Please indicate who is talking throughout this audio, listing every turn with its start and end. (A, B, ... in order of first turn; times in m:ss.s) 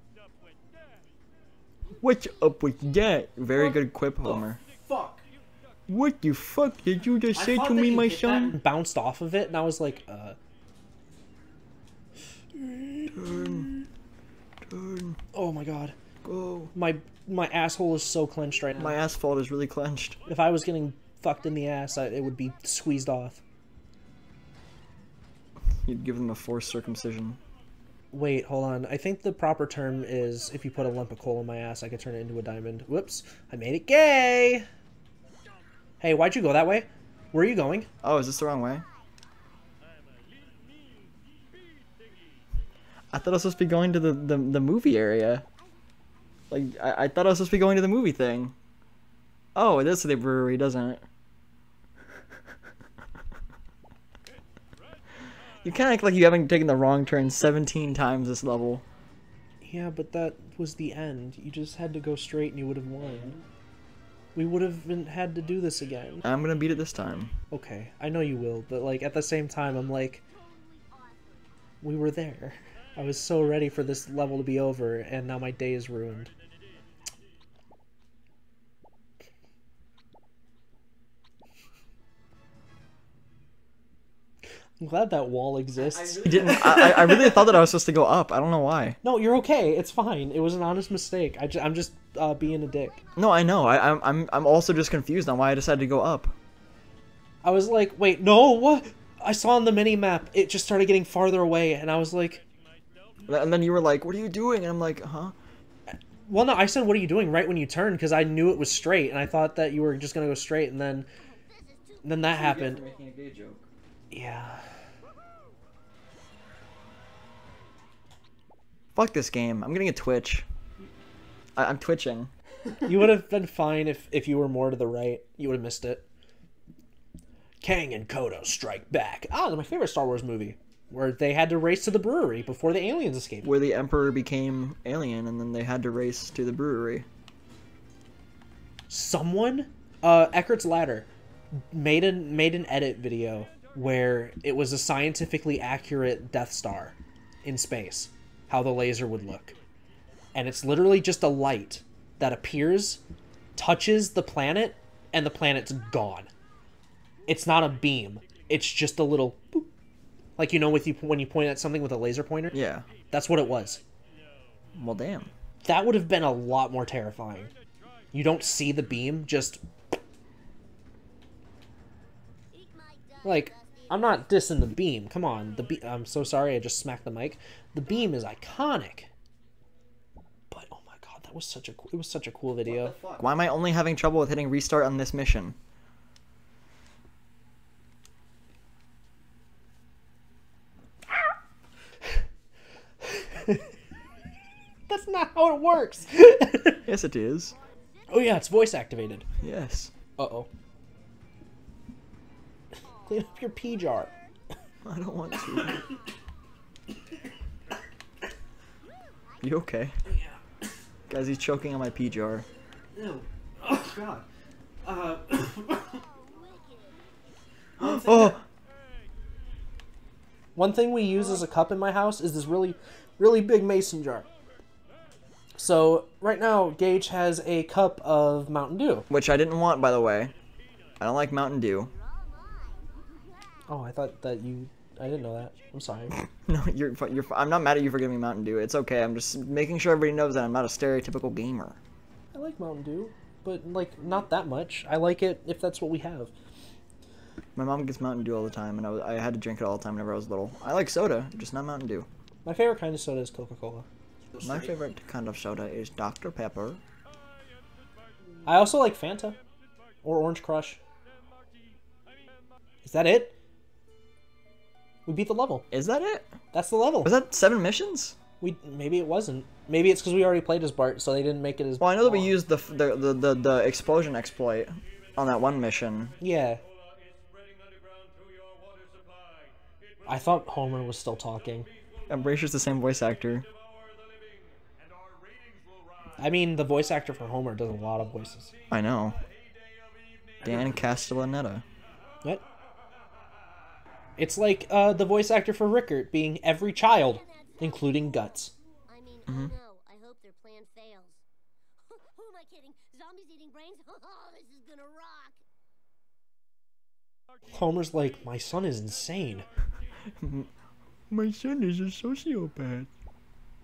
0:02.0-0:04.6 A
0:03.5-0:05.2 B
0:05.9-0:08.6 A
0:07.3-0:10.4 B
0:12.6-0:13.8 B
0:13.1-0:13.7 A
0:14.7-0:15.2 A
0:15.3-0:16.0 B
0:16.2-0:16.7 A
0:16.7-0:19.0 B
0:18.7-0:20.2 A
0:20.3-0:23.4 B
0:25.8-0:27.4 A
0:28.1-0:34.7 B
0:36.0-0:37.9 B
0:38.0-0:38.8 A
0:43.1-0:45.4 A
0:46.5-0:48.5 A
0:49.6-0:51.0 A
0:55.6-0:58.8 A
0:59.6-1:03.4 B
1:04.4-1:06.2 B
1:06.2-1:07.3 A
1:07.5-1:10.2 B
1:11.8-1:16.3 B
1:24.8-1:27.6 B
1:26.2-1:29.0 A
1:29.0-1:33.0 B
1:33.2-1:36.4 A
1:37.4-1:42.4 B
1:43.3-1:45.3 A
1:45.9-1:51.1 B
1:52.0-1:52.8 B
1:52.3-1:53.7 A
1:54.1-1:54.7 B
1:59.0-2:00.5 A
2:01.6-2:02.3 A
2:02.8-2:06.0 B
2:07.6-2:13.5 B
2:13.4-2:17.1 A
2:18.9-2:21.1 B
2:21.7-2:29.6 B
2:30.4-2:33.0 B
2:33.6-2:36.3 B
2:37.3-2:39.7 B
2:40.4-2:42.6 B
2:42.5-2:42.9 A
2:43.1-2:43.8 B
2:44.8-2:45.3 A
2:45.6-2:47.5 B
2:48.1-2:49.6 B
2:53.2-2:59.1 B
3:00.5-3:03.0 B
3:02.6-3:05.6 A
3:13.0-3:13.7 B
3:14.9-3:16.8 B
3:16.8-3:17.6 A
3:18.1-3:19.3 B
3:19.4-3:19.9 A
3:20.2-3:20.5 B
3:23.1-3:24.1 B
3:24.8-3:25.9 A
3:29.4-3:30.0 A
3:30.0-3:30.7 B
3:31.1-3:32.5 A
3:33.0-3:34.2 B
3:34.8-3:36.0 B
3:37.8-3:38.4 B
3:37.8-3:38.4 A
3:40.6-3:44.3 B
3:45.6-3:49.1 B
3:49.1-3:50.3 A
3:51.0-3:51.9 A
3:53.7-3:56.2 B
3:56.4-4:01.8 A
4:02.3-4:06.3 B
4:07.6-4:12.1 A
4:12.4-4:13.9 B
4:14.4-4:16.8 A
4:18.4-4:19.4 B
4:20.0-4:20.8 B
4:22.8-4:23.3 B
4:25.1-4:25.7 B
4:25.7-4:26.3 A
4:26.5-4:27.2 B
4:27.0-4:28.2 A
4:28.4-4:32.4 B
4:31.8-4:36.2 A
4:36.2-4:36.6 B
4:40.1-4:41.7 B
4:42.1-4:43.5 A
4:46.2-4:48.5 B
4:48.7-4:49.2 A
4:50.4-4:50.8 B
4:50.4-4:51.6 A
4:54.2-4:58.5 B
4:59.1-5:01.1 C
4:59.3-4:59.5 A
5:02.2-5:05.3 C
5:07.5-5:09.5 B
5:10.2-5:10.5 A
5:11.1-5:12.9 A